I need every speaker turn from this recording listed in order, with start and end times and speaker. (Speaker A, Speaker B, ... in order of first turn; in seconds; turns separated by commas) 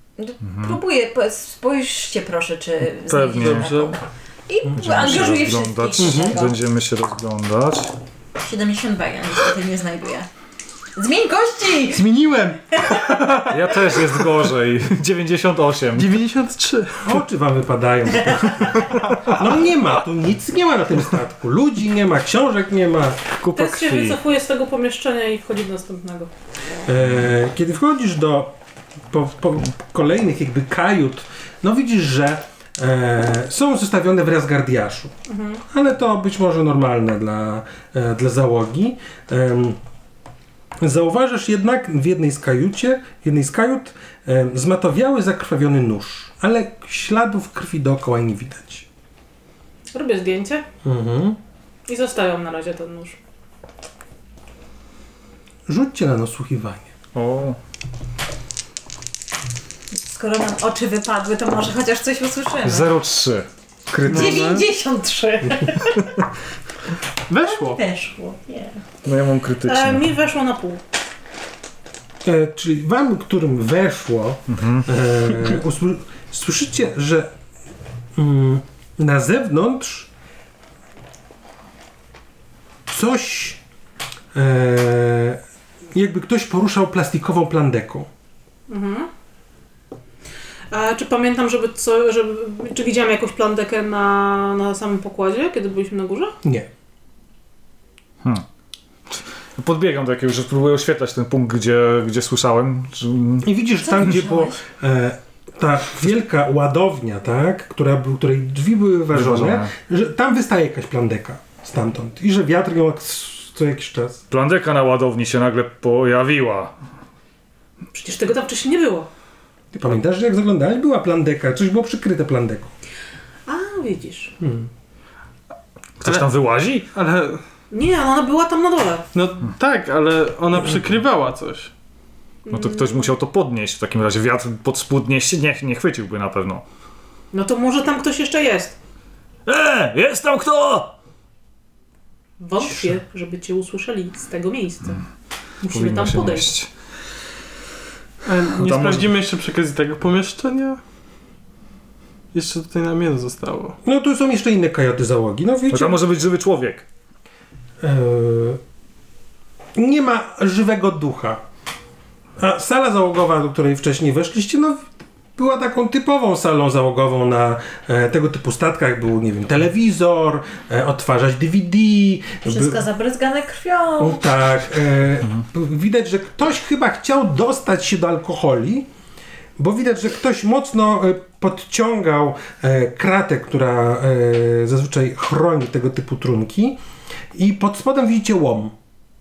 Speaker A: 0.2-6.5, Speaker B: 0.4-0.8, Speaker B: 3.1-3.7, Speaker C: 3.4-4.0, Speaker B: 4.8-7.9, Speaker D: 6.0-6.3, Speaker A: 8.4-10.3, Speaker A: 10.9-12.1, Speaker C: 11.9-14.2, Speaker A: 12.8-13.4, Speaker B: 13.5-16.1, Speaker C: 15.9-17.1, Speaker D: 17.0-23.3, Speaker B: 23.4-24.2, Speaker E: 23.5-26.3, Speaker D: 26.9-28.5, Speaker D: 29.1-35.1, Speaker E: 35.3-35.6, Speaker D: 35.7-39.8, Speaker D: 40.8-48.9, Speaker E: 49.9-50.6, Speaker D: 50.8-51.4, Speaker E: 51.9-53.2, Speaker D: 55.7-56.9, Speaker B: 57.1-57.6, Speaker A: 59.9-62.9, Speaker B: 62.6-63.5, Speaker D: 63.9-64.5, Speaker A: 64.0-66.1, Speaker C: 64.0-64.7, Speaker C: 67.3-67.8, Speaker A: 67.4-68.8, Speaker B: 69.0-70.0, Speaker E: 69.6-70.8, Speaker D: 72.2-77.3, Speaker B: 74.5-74.9, Speaker D: 78.2-80.1, Speaker D: 82.9-83.6, Speaker D: 84.3-85.4, Speaker D: 85.9-88.1, Speaker E: 88.7-89.1, Speaker E: 90.7-96.3, Speaker B: 99.6-103.5, Speaker D: 103.4-114.2, Speaker A: 103.8-104.6, Speaker B: 109.1-109.7, Speaker B: 114.3-116.7, Speaker E: 117.9-119.1, Speaker D: 119.7-122.7, Speaker E: 123.5-124.3, Speaker D: 124.4-124.7, Speaker B: 126.0-126.9, Speaker C: 126.9-127.4, Speaker E: 127.7-129.1, Speaker C: 129.1-131.7, Speaker E: 132.4-133.1, Speaker B: 132.5-136.6, Speaker E: 137.3-138.8, Speaker B: 139.4-140.9, Speaker E: 142.4-145.0, Speaker E: 145.6-146.5, Speaker B: 145.7-146.7, Speaker C: 148.2-150.8, Speaker B: 148.5-149.1, Speaker C: 152.3-153.8, Speaker D: 153.8-156.0, Speaker B: 155.7-156.8, Speaker D: 157.8-158.6, Speaker D: 159.7-161.4, Speaker D: 162.4-172.8, Speaker A: 172.4-174.2, Speaker D: 174.0-178.9, Speaker D: 179.6-186.8, Speaker D: 187.3-188.7